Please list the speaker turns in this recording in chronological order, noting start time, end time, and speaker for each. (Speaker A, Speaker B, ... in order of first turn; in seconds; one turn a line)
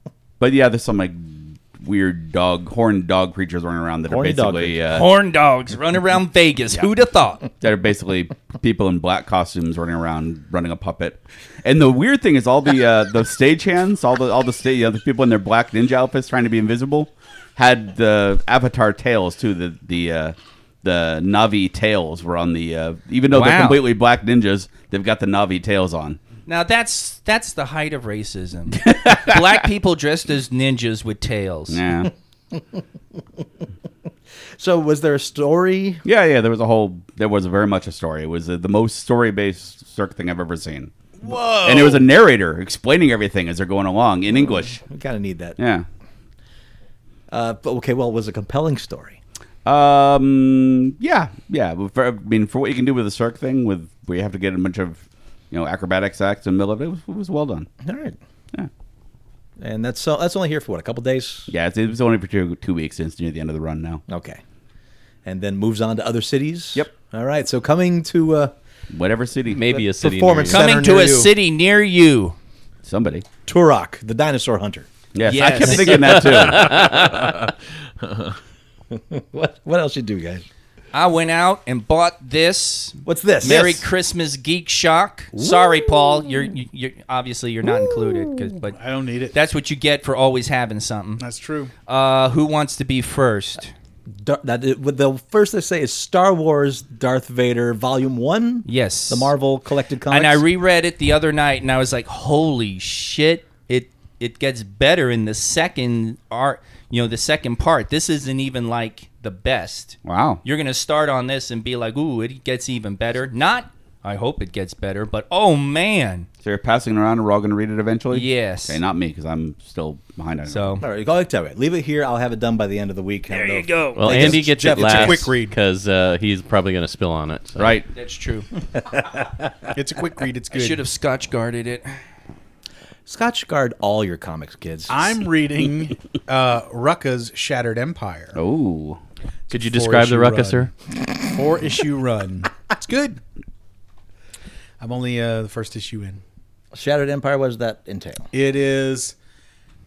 Speaker A: 0.4-5.1
Speaker B: 4.1-5.0
Speaker C: 4.9-7.4
Speaker A: 7.6-26.2
Speaker C: 23.3-23.8
Speaker C: 26.5-31.8
Speaker A: 28.7-29.5
Speaker A: 31.7-32.1
Speaker B: 32.0-32.8
Speaker B: 34.6-36.0
Speaker A: 36.0-40.9
Speaker D: 41.2-42.0
Speaker A: 41.6-44.8
Speaker B: 44.7-45.6
Speaker A: 45.6-45.9
Speaker B: 47.3-49.2
Speaker A: 49.6-57.7
Speaker B: 57.8-58.2
Speaker B: 59.6-61.5
Speaker A: 61.5-64.0
Speaker B: 64.1-64.4
Speaker B: 65.2-68.5
Speaker A: 68.9-69.7
Speaker E: 69.5-70.6
Speaker B: 69.7-71.3
Speaker C: 70.5-72.4
Speaker A: 72.8-73.3
Speaker B: 73.5-74.9
Speaker A: 75.1-76.8
Speaker C: 75.3-76.2
Speaker E: 76.2-77.3
Speaker B: 78.9-80.5
Speaker C: 80.9-88.8
Speaker B: 83.0-83.8
Speaker B: 85.3-85.8
Speaker D: 88.7-89.3
Speaker C: 89.3-91.2
Speaker D: 91.2-91.7
Speaker C: 91.9-93.7
Speaker B: 94.1-100.4
Speaker C: 98.7-99.3
Speaker C: 100.1-116.3
Speaker A: 110.0-110.4
Speaker A: 116.4-120.8
Speaker C: 118.1-118.8
Speaker C: 120.5-120.8
Speaker B: 120.8-125.3
Speaker C: 123.3-124.1
Speaker E: 124.0-127.6
Speaker D: 124.1-125.6
Speaker A: 127.6-127.9
Speaker C: 127.9-128.5
Speaker D: 129.7-130.8
Speaker C: 130.5-131.9
Speaker B: 133.1-135.1
Speaker D: 134.9-138.4
Speaker A: 138.3-139.0
Speaker E: 139.5-140.7
Speaker D: 139.5-143.2
Speaker D: 144.8-146.2
Speaker B: 146.7-148.3
Speaker D: 148.3-149.2